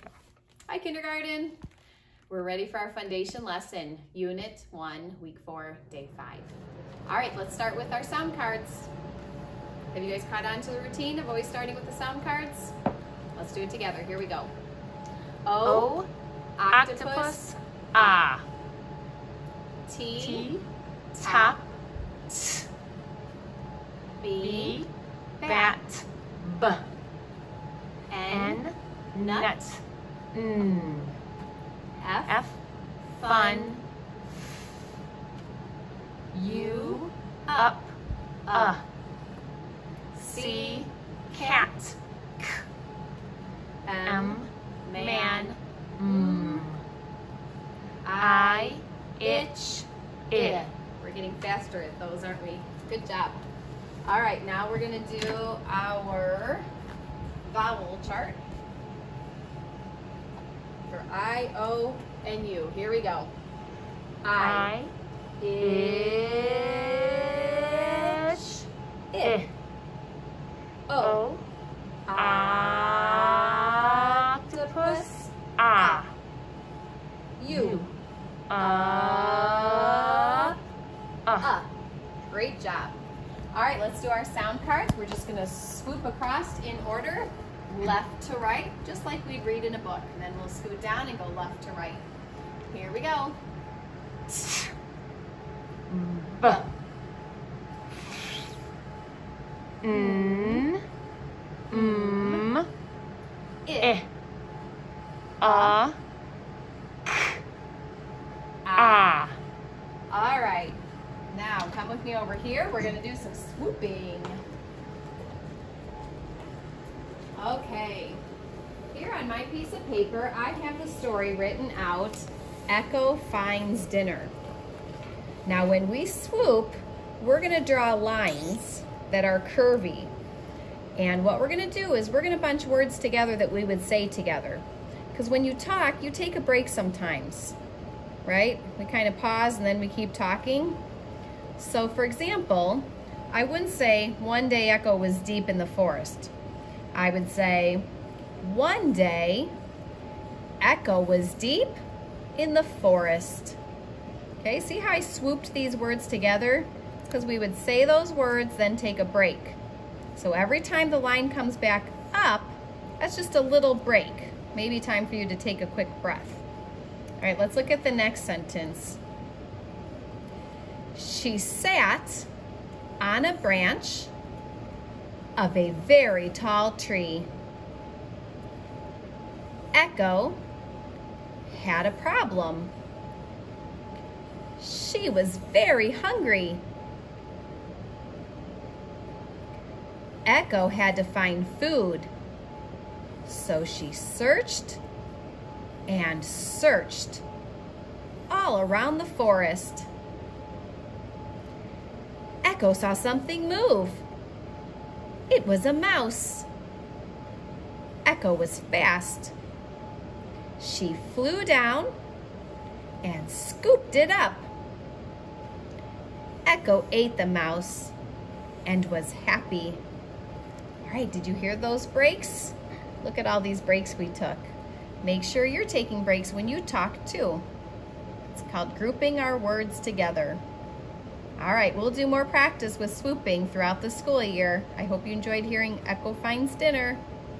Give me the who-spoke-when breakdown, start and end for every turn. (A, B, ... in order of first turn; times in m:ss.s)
0:00.7-0:01.6 A
0:02.3-0:08.9 A
0:09.9-0:12.7 A
0:13.3-0:14.5 A
0:15.4-0:15.9 A
0:15.6-0:16.1 B
0:16.6-0:17.4 A
0:16.7-0:18.4 B
0:18.0-0:18.2 A
0:19.9-0:20.5 A
0:20.2-0:21.6 B
0:21.2-0:21.6 A
0:22.3-0:22.6 B
0:24.2-0:24.8 A
0:24.4-0:24.9 B
0:25.4-0:25.8 A
0:25.4-0:26.8 B
0:28.1-0:29.5 A
0:28.3-0:29.8 B
0:30.3-0:31.1 B
0:32.0-0:32.4 A
0:32.3-0:32.6 B
0:33.2-0:33.8 A
0:33.2-0:33.8 B
0:36.3-0:37.9 B
0:36.4-0:37.8 A
0:38.5-0:38.8 A
0:38.5-0:38.8 B
0:40.1-0:41.7 A
0:40.2-0:42.6 B
0:43.8-0:46.6 A
0:44.0-0:46.8 B
0:48.0-0:53.4 A
0:48.2-0:49.5 B
0:50.3-0:50.7 B
0:54.0-0:56.7 A
0:57.4-0:58.4 A
1:00.9-1:03.3 A
1:04.2-1:04.7 A
1:04.4-1:04.9 B
1:05.4-1:09.4 A
1:05.6-1:08.4 B
1:09.2-1:09.5 B
1:10.9-1:11.2 A
1:11.0-1:11.4 B
1:12.1-1:16.0 A
1:12.2-1:16.1 B
1:17.4-1:17.9 A
1:17.5-1:17.9 B
1:18.5-1:20.5 B
1:18.6-1:20.6 A
1:21.2-1:21.5 B
1:21.4-1:21.7 A
1:22.3-1:23.0 A
1:23.5-1:32.0 A
1:32.7-1:33.4 A
1:35.9-1:36.6 B
1:39.8-1:40.8 B
1:39.9-1:40.6 A
1:41.7-1:42.4 A
1:41.7-1:42.7 B
1:43.6-1:43.9 A
1:43.8-1:44.1 B
1:45.4-1:46.0 B
1:45.4-1:45.8 A
1:48.6-1:49.1 A
1:48.8-1:49.4 B
1:50.1-1:54.4 A
1:57.4-1:58.2 A
1:58.9-2:04.3 A
2:05.4-2:10.1 A
2:11.0-2:17.6 A
2:18.2-2:20.8 A
2:21.6-2:26.3 A
2:26.9-2:27.9 A
2:28.4-2:29.5 A
2:30.6-2:31.8 A
2:32.3-2:33.6 A
2:34.4-2:39.6 A
2:40.1-2:46.4 A
2:47.2-2:49.0 A
2:50.9-2:52.3 A
2:53.0-2:54.1 A
2:55.4-2:57.3 A
2:59.7-3:00.4 A
3:01.4-3:02.7 A
3:04.6-3:06.6 A
3:10.2-3:12.1 A
3:13.2-3:14.8 A
3:15.9-3:17.2 A
3:18.3-3:19.9 A
3:22.4-3:24.0 A
3:25.3-3:26.5 A
3:28.0-3:29.3 A
3:30.6-3:31.9 A
3:33.0-3:34.5 A
3:36.5-3:37.9 A
3:38.6-3:39.8 A
3:40.8-3:44.5 A
3:45.0-3:47.5 A
3:48.3-3:50.4 A
3:51.4-3:57.0 A